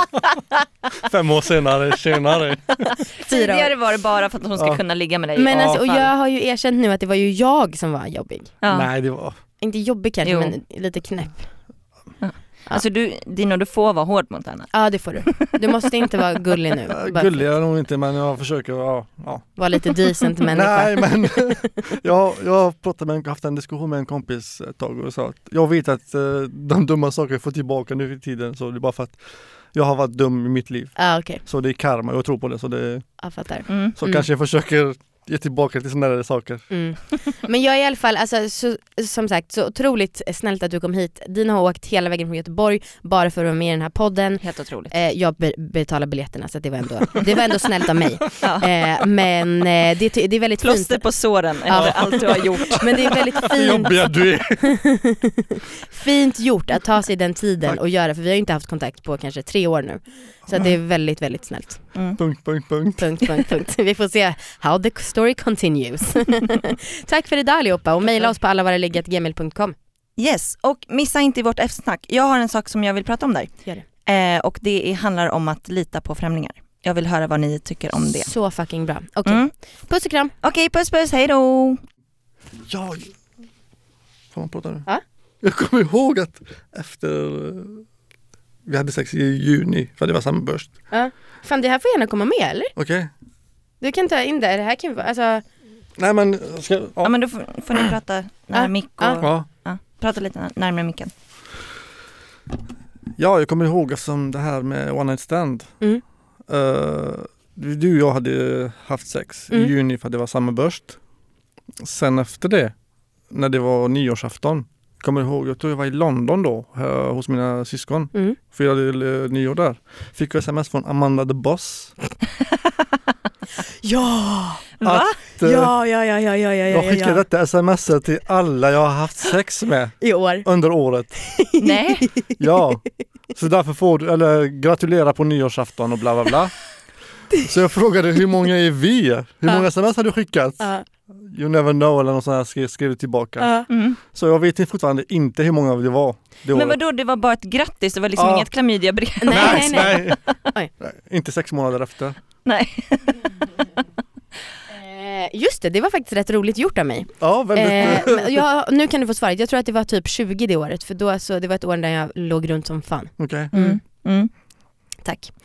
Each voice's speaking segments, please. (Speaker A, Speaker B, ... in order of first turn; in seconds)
Speaker A: 1.0-2.8, 5.5-5.8, 8.7-9.3, 16.9-19.6, 20.5-29.2, 29.7-33.1, 34.0-36.7, 51.7-54.7, 62.2-63.2, 82.7-83.1, 84.3-84.8, 85.4-87.8, 88.6-90.7, 92.8-93.1, 96.0-97.1, 99.2-99.5, 103.2-105.7, 106.5-111.0, 111.8-112.7, 113.3-121.9, 124.8-125.7, 126.7-131.1, 132.4-136.5, 137.3-146.8, 148.2-148.5, 149.3-150.2, 150.8-152.2, 157.2-158.4, 163.2-163.5
Speaker B: 3.2-6.0, 8.6-8.9, 10.2-10.5, 12.2-14.7, 15.2-15.6, 33.7-34.0, 44.4-44.9, 48.4-48.7, 50.6-53.2, 61.9-62.2, 70.2-78.3, 79.2-79.5, 80.4-81.8, 97.0-101.1, 124.8-125.2, 131.6-132.1, 143.7-144.0, 146.5-150.3, 152.4-153.3, 163.5-164.3
Speaker C: 3.2-3.7, 5.3-8.5, 9.6-11.5, 14.7-17.5, 19.6-21.6, 30.9-31.4, 33.2-34.2, 36.7-51.0, 51.6-61.8, 63.0-69.7, 78.1-80.3, 90.9-92.7, 93.8-95.4, 98.5-99.2, 123.8-124.7, 125.4-127.2, 130.0-130.4, 131.2-132.4, 143.4-143.7, 149.2-150.7, 154.7-163.8